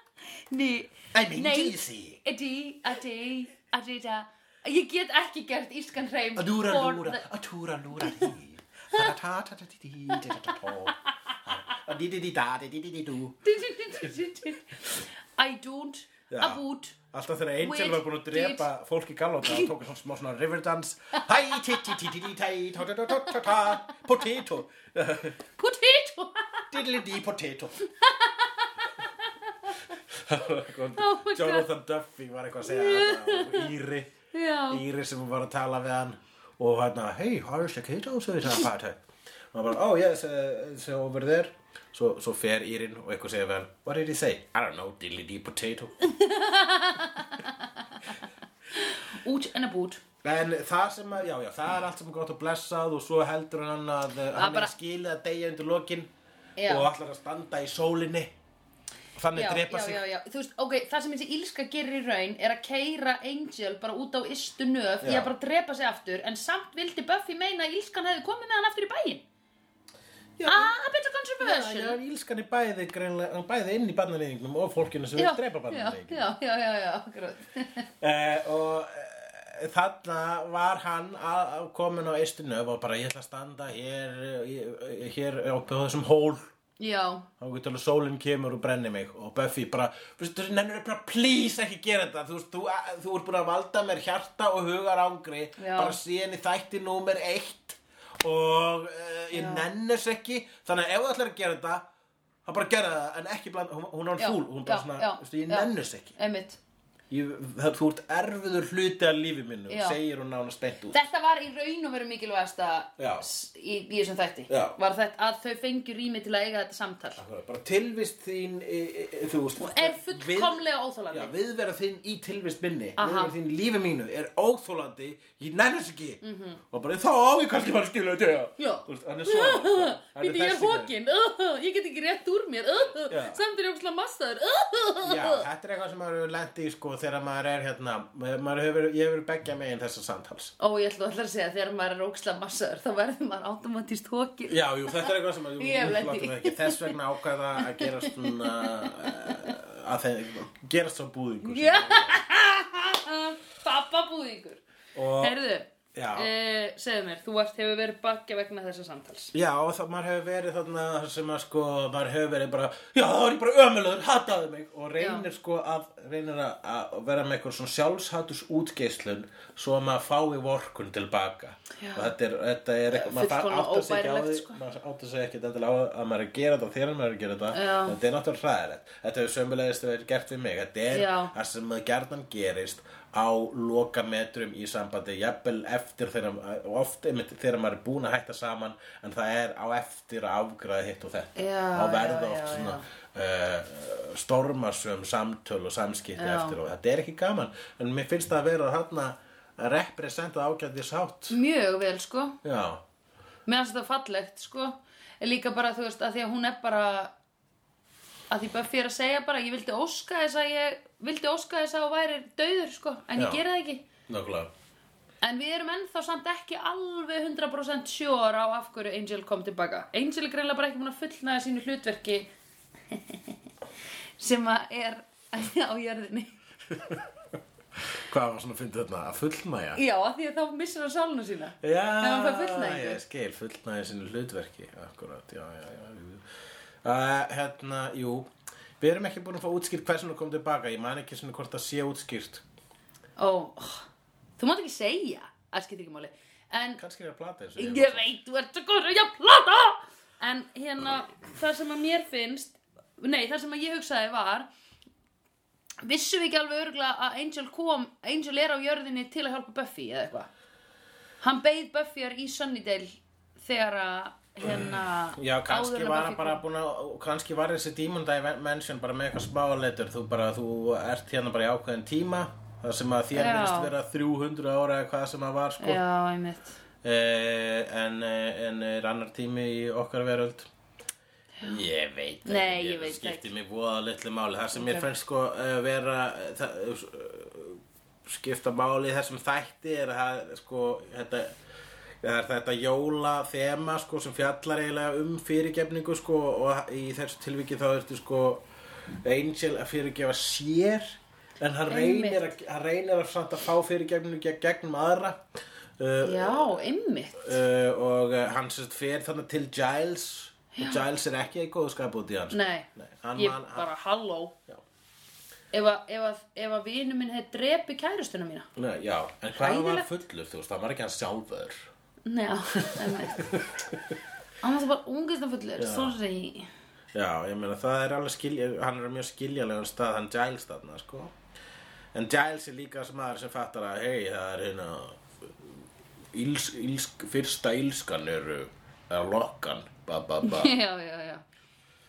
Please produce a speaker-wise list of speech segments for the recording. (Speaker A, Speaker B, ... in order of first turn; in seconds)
Speaker A: 0.3-7.2, 13.4-17.0, 17.6-18.7, 25.6-26.9, 28.0-28.7, 31.0-31.7, 32.6-33.7, 34.3-34.8, 46.0-48.2, 48.7-50.0, 54.3-54.7, 56.6-56.9, 59.3-69.2, 70.5-72.0, 75.2-77.9, 86.8-87.3, 95.6-96.0, 99.3-99.7, 104.2-106.6, 109.7-110.0, 110.9-117.2, 119.6-121.3, 123.0-123.3, 126.2-126.6, 128.6-135.5, 140.6-146.9, 147.6-149.6, 151.4-154.6, 155.2-159.3, 165.0-165.3, 171.8-172.1, 172.9-174.6, 177.5-178.0, 180.9-181.3, 191.4-192.8, 196.2-196.6, 201.3-202.4, 203.5-207.1, 208.3-213.9, 215.2-222.3, 222.9-223.3, 224.2-226.3, 229.8-233.0, 243.2-246.8, 247.6-254.5, 255.8-260.3, 261.2-266.4, 273.1-273.7, 275.6-276.6, 282.2-283.3, 284.5-284.9, 301.7-302.3, 306.0-307.4, 310.5-310.9, 312.3-314.4, 315.5-318.5, 319.4-319.9, 322.1-323.3, 324.4-326.5, 340.2-341.2
Speaker B: 1.1-2.2, 6.4-13.4, 16.3-25.4, 26.7-27.8, 30.1-34.1, 34.7-39.0, 39.5-46.0, 50.2-56.1, 56.6-58.3, 59.2-60.0, 65.0-65.3, 70.4-70.8, 71.4-76.2, 78.0-86.5, 87.4-101.9, 102.5-106.2, 107.1-111.0, 113.0-113.3, 114.5-114.8, 117.2-130.9, 133.1-133.4, 135.0-140.6, 144.5-152.2, 154.9-155.4, 155.9-156.3, 159.3-201.4, 202.4-202.8, 213.2-213.4, 214.1-214.5, 226.7-227.0, 227.8-229.8, 231.6-236.3, 236.8-238.3, 238.8-242.4, 246.8-248.2, 264.4-275.8, 276.8-280.5, 281.4-291.3, 292.0-305.2, 305.8-306.6, 307.2-313.7, 318.6-321.7, 322.6-323.6, 325.6-326.0, 326.9-331.1, 331.9-335.6, 336.1-340.6